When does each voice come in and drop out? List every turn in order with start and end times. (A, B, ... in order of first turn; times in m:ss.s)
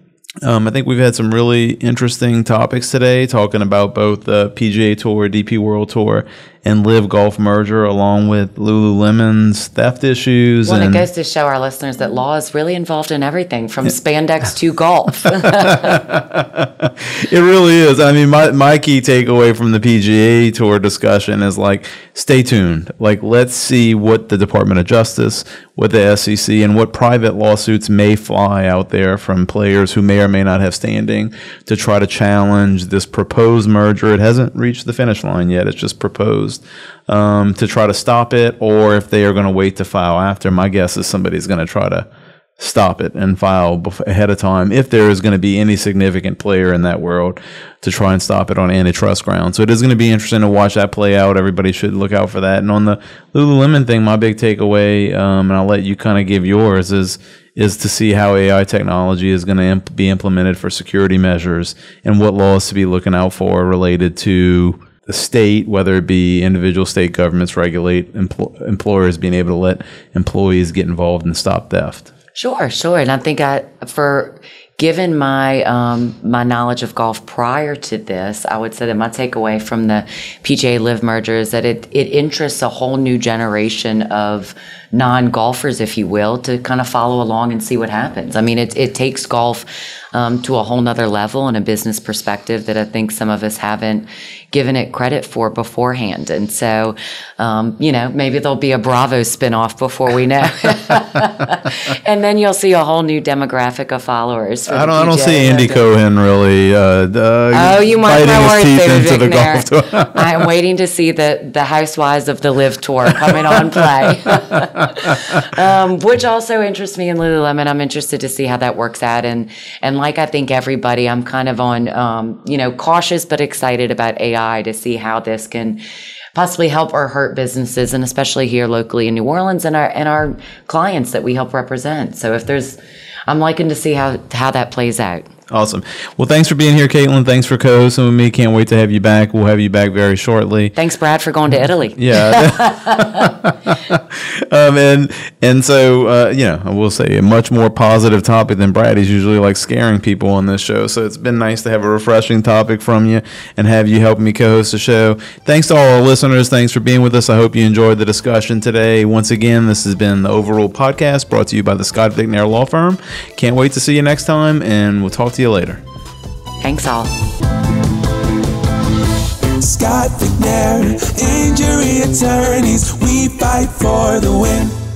0:00.4-0:11.0 A
0:10.6-0:16.0 B
0:15.6-0:42.1 A
0:42.6-1:12.1 A
1:12.4-1:45.8 B
1:44.7-1:50.4 A
1:47.5-2:05.8 B
1:54.5-1:55.1 A
2:06.3-2:15.3 B
2:15.5-2:20.7 A
2:20.8-2:23.4 B
2:22.0-2:45.8 A
2:46.6-2:47.1 B
2:49.6-2:54.7 C